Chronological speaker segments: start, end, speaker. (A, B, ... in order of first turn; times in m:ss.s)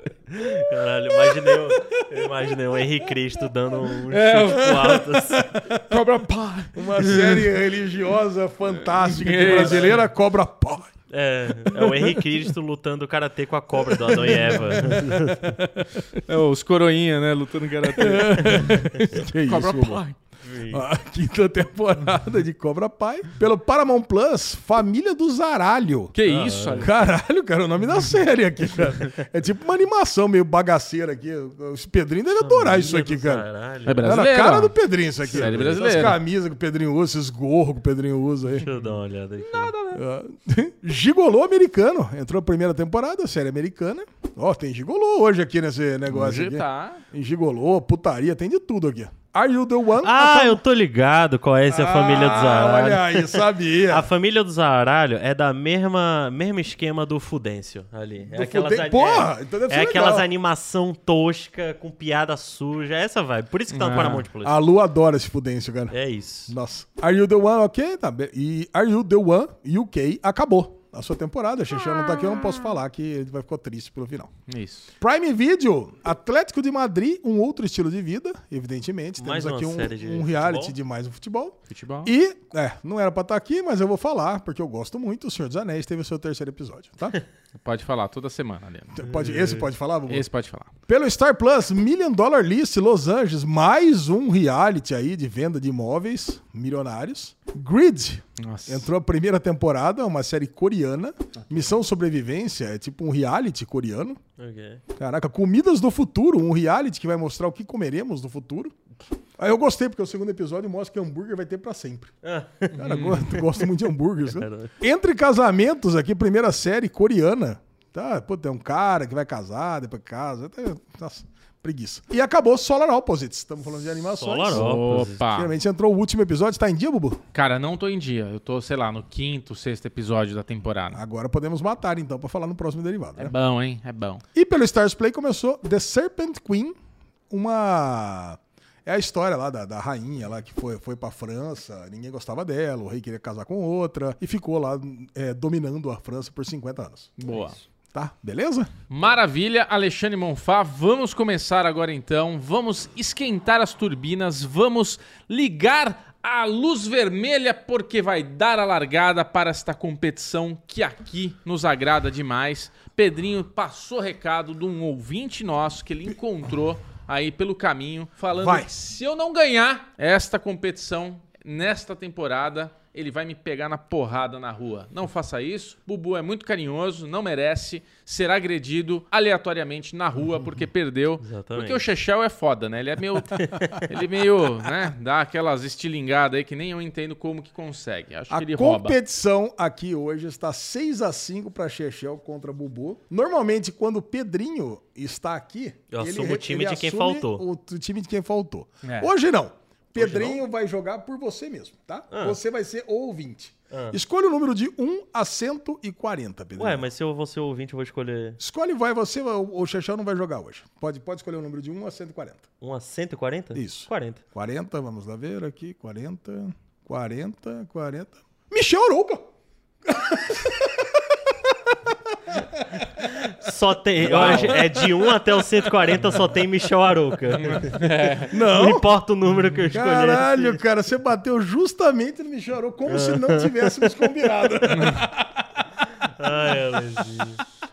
0:00.3-0:05.5 A
0:00.4-0:02.8 B
0:04.1-0:05.0 C
0:04.6-0:06.0 B
0:05.9-0:07.5 C
0:06.7-0:10.9 B
0:08.9-0:10.0 C
0:09.4-0:09.9 A
0:11.1-0:15.5 A
0:11.7-0:12.5 B
0:13.8-0:16.2 B
0:16.3-0:20.2 C
0:18.0-0:20.0 B
0:20.4-0:20.8 A
0:20.7-0:26.2 B
0:26.1-0:26.9 C
0:26.3-0:26.9 A
0:26.8-0:33.5 B
0:32.4-0:34.1 A
0:33.9-0:36.2 C
0:34.0-0:38.7 B
0:35.3-0:35.8 A
0:38.6-0:39.7 A
0:38.6-0:40.0 C
0:39.9-0:50.6 B
0:46.1-0:47.0 C
0:50.0-1:04.6 A
0:51.7-0:54.1 B
0:58.3-1:00.3 B
1:03.7-1:04.2 C
1:04.4-1:06.0 B
1:05.9-1:06.6 A
1:06.5-1:14.3 B
1:11.9-1:12.5 A
1:14.5-1:14.9 C
1:15.0-1:27.2 B
1:19.2-1:20.8 A
1:21.7-1:22.1 C
1:27.6-1:29.3 C
1:28.9-1:30.3 B
1:30.1-1:30.7 C
1:30.9-1:44.2 B
1:38.4-1:38.9 C
1:41.4-1:41.7 C
1:44.4-1:44.8 A
1:45.0-1:48.7 B
1:49.4-1:52.1 B
1:52.2-1:53.7 A
1:52.7-1:53.3 C
1:52.8-2:07.2 B
1:54.3-1:54.7 A
2:04.1-2:05.2 A
2:04.5-2:05.5 C
2:07.3-2:11.0 C
2:10.9-2:13.3 B
2:13.2-2:14.2 C
2:14.3-2:16.7 B
2:17.3-2:27.2 B
2:27.2-2:27.6 C
2:27.2-2:27.5 A
2:27.9-2:28.7 B
2:28.9-3:09.0 C
2:48.4-2:48.7 B
3:01.2-3:01.8 A
3:03.5-3:03.8 A
3:08.3-3:26.9 B
3:15.9-3:17.4 A
3:18.8-3:19.1 C
3:20.0-3:20.4 A
3:22.1-3:22.4 A
3:23.7-3:24.0 A
3:26.6-3:28.4 A
3:28.4-3:32.4 B
3:32.6-3:34.2 A
3:33.5-3:39.3 B
3:39.8-3:46.2 B
3:43.0-3:50.6 A
3:47.3-3:48.3 C
3:48.3-3:48.9 B
3:49.7-3:55.7 B
3:52.9-3:54.0 A
3:54.7-3:55.1 C
3:56.0-3:57.4 A
3:56.3-3:56.6 B